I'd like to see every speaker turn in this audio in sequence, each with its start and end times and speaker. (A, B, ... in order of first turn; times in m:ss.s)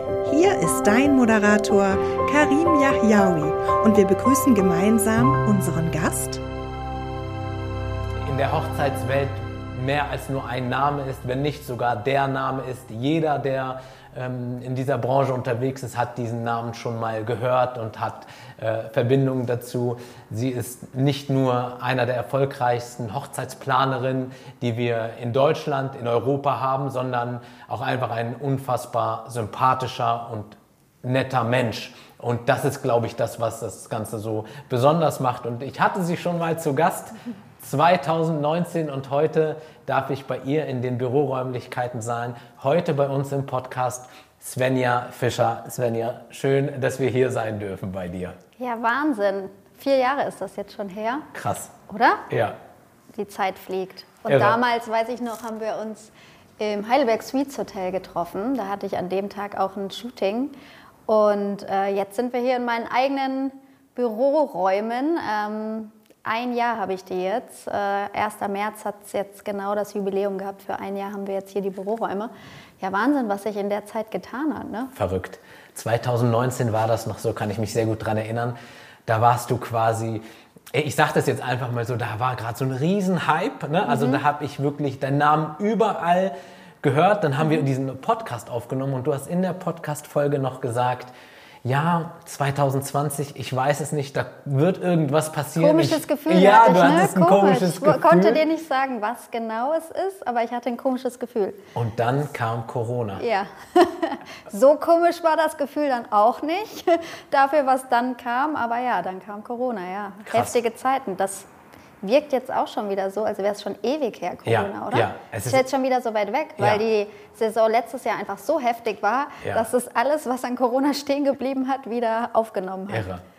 0:00.2-0:06.4 A
0:08.2-0:48.4 B
0:48.6-0:51.3 C
0:51.3-0:51.7 B
0:51.9-0:52.2 C
0:52.3-0:52.6 B
0:53.2-1:00.6 C
0:54.3-0:54.6 B
1:01.1-1:14.9 C
1:15.0-1:31.1 B
1:23.9-1:24.2 C
1:31.6-1:38.4 B
1:35.6-1:41.6 C
1:41.8-1:43.2 B
1:43.2-1:51.5 C
1:50.3-1:50.6 B
1:52.0-2:03.1 C
1:54.5-1:55.7 B
2:02.9-2:03.2 B